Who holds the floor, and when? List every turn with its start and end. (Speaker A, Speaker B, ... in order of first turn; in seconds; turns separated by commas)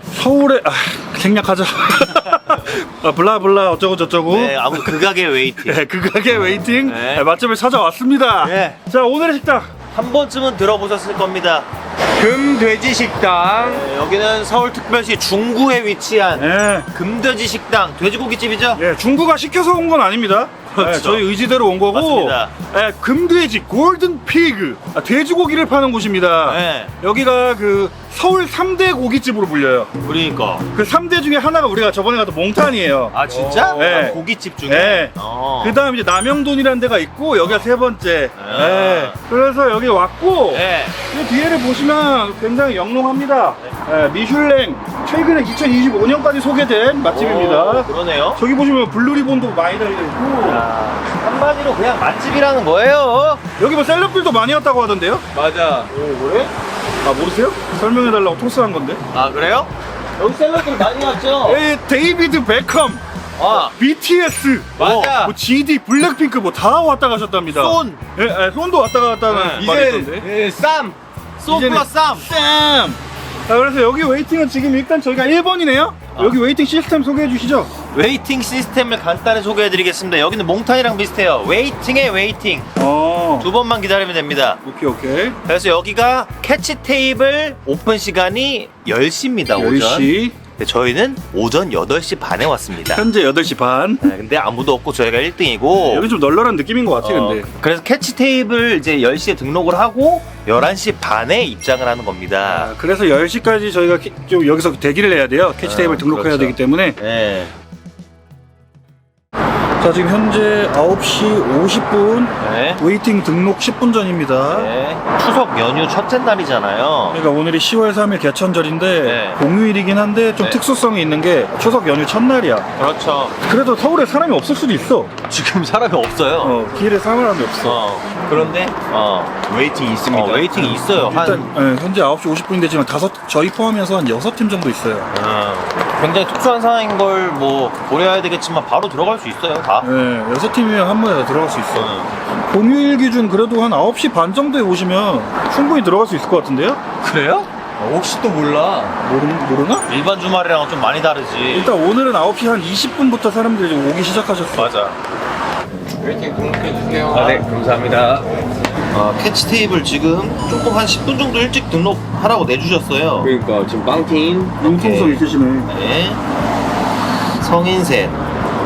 Speaker A: 0.1-9.7, Speaker B: 4.3-5.8, Speaker B: 6.8-7.2, Speaker B: 8.4-8.8, Speaker B: 9.9-11.7, Speaker C: 12.2-13.8, Speaker B: 13.6-18.8, Speaker A: 16.4-16.9, Speaker A: 18.8-29.9, Speaker B: 20.8-21.2, Speaker B: 21.9-22.5, Speaker B: 26.4-26.9, Speaker B: 30.0-30.6, Speaker A: 30.7-33.2, Speaker B: 33.1-35.8, Speaker C: 33.3-34.1, Speaker A: 33.7-50.6, Speaker B: 38.4-39.1, Speaker B: 40.5-41.0, Speaker B: 47.1-48.4, Speaker B: 50.4-53.4, Speaker A: 53.6-55.2, Speaker C: 55.3-55.9, Speaker B: 55.9-56.5, Speaker A: 57.0-59.0, Speaker B: 59.1-61.6, Speaker A: 61.4-63.0, Speaker B: 63.4-63.7, Speaker A: 63.5-70.3, Speaker B: 64.8-65.3, Speaker B: 67.5-68.0, Speaker B: 69.3-69.7, Speaker C: 69.5-70.9, Speaker B: 71.4-72.2, Speaker A: 71.5-77.7, Speaker B: 77.9-82.7, Speaker A: 82.8-83.5, Speaker B: 83.4-84.6, Speaker A: 84.6-85.4, Speaker B: 85.5-93.0, Speaker A: 89.5-90.3, Speaker A: 92.9-94.0, Speaker B: 94.0-96.1, Speaker A: 95.7-97.5, Speaker B: 97.0-102.7, Speaker A: 102.5-107.0, Speaker B: 105.6-107.5, Speaker A: 109.8-114.7, Speaker B: 112.4-112.8, Speaker B: 114.5-117.2, Speaker A: 117.1-122.7, Speaker B: 119.0-119.4, Speaker B: 122.8-123.4, Speaker A: 123.5-125.2, Speaker B: 125.3-126.6, Speaker A: 126.4-127.8, Speaker B: 127.6-131.5, Speaker C: 130.0-130.7, Speaker A: 130.6-135.1, Speaker B: 135.1-139.9, Speaker A: 139.8-141.9, Speaker B: 141.7-142.1, Speaker A: 142.5-146.8, Speaker B: 147.0-147.4, Speaker C: 147.8-148.9, Speaker A: 149.0-149.8, Speaker B: 149.9-151.7, Speaker A: 151.5-154.7, Speaker B: 154.6-154.9, Speaker C: 156.0-158.3, Speaker B: 157.1-157.4, Speaker B: 158.9-163.3, Speaker C: 163.2-164.6, Speaker A: 164.6-165.7, Speaker B: 164.6-166.2, Speaker B: 167.4-168.2